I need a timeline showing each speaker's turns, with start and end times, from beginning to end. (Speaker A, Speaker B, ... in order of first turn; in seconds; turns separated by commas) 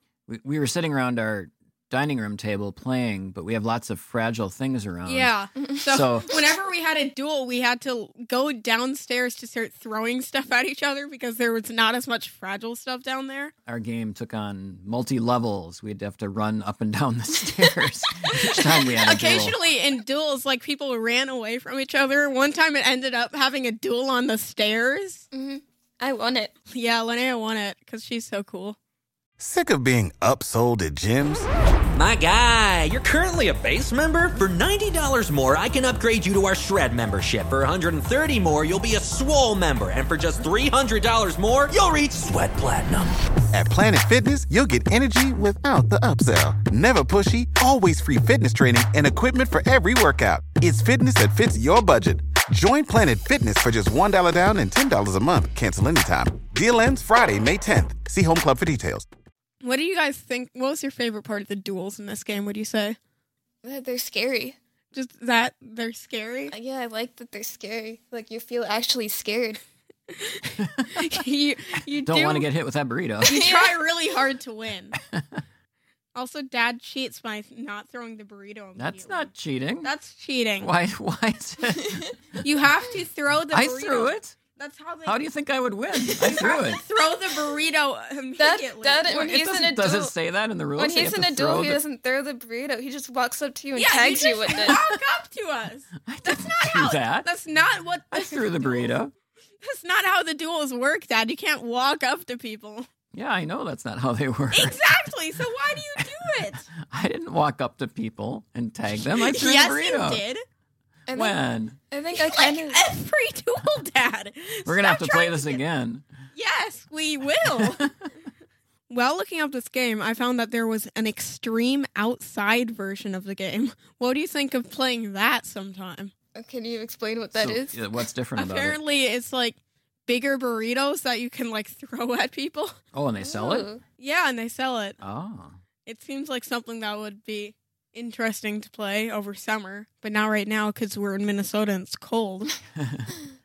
Speaker A: 0.3-5.3, Speaker B: 5.0-13.5, Speaker A: 5.9-6.4, Speaker A: 13.7-19.6, Speaker B: 18.2-25.2, Speaker C: 25.3-26.5, Speaker B: 26.7-28.8, Speaker D: 29.4-31.5, Speaker E: 31.9-43.1, Speaker D: 43.5-59.1, Speaker B: 59.6-63.0, Speaker C: 63.6-64.6, Speaker B: 64.9-66.5, Speaker C: 66.5-69.6, Speaker B: 70.1-72.5, Speaker A: 70.6-70.9, Speaker A: 72.0-73.4, Speaker C: 73.2-73.8, Speaker B: 73.2-75.0, Speaker B: 76.1-79.3, Speaker A: 78.8-79.9, Speaker B: 79.8-80.7, Speaker A: 80.6-82.0, Speaker C: 81.7-82.2, Speaker B: 82.4-85.2, Speaker A: 83.5-84.4, Speaker A: 85.0-86.8, Speaker C: 86.0-86.6, Speaker B: 86.2-89.1, Speaker C: 88.4-90.1, Speaker A: 89.0-91.8, Speaker C: 90.8-94.8, Speaker B: 93.7-98.9, Speaker A: 96.1-97.3, Speaker A: 98.1-99.1, Speaker B: 99.6-102.9, Speaker A: 103.1-104.8, Speaker B: 104.5-106.7, Speaker A: 106.8-110.2, Speaker B: 109.1-110.4, Speaker C: 111.1-111.4, Speaker A: 111.1-111.8, Speaker C: 111.9-112.8, Speaker B: 112.1-115.6, Speaker A: 114.6-116.0, Speaker B: 116.3-117.9, Speaker A: 117.6-117.9, Speaker B: 118.9-126.1, Speaker C: 126.3-127.8, Speaker A: 127.3-128.8, Speaker B: 128.3-132.7, Speaker A: 132.9-133.7, Speaker C: 133.2-133.8, Speaker B: 134.0-135.0, Speaker A: 135.0-135.6, Speaker B: 135.8-142.6, Speaker A: 142.8-143.2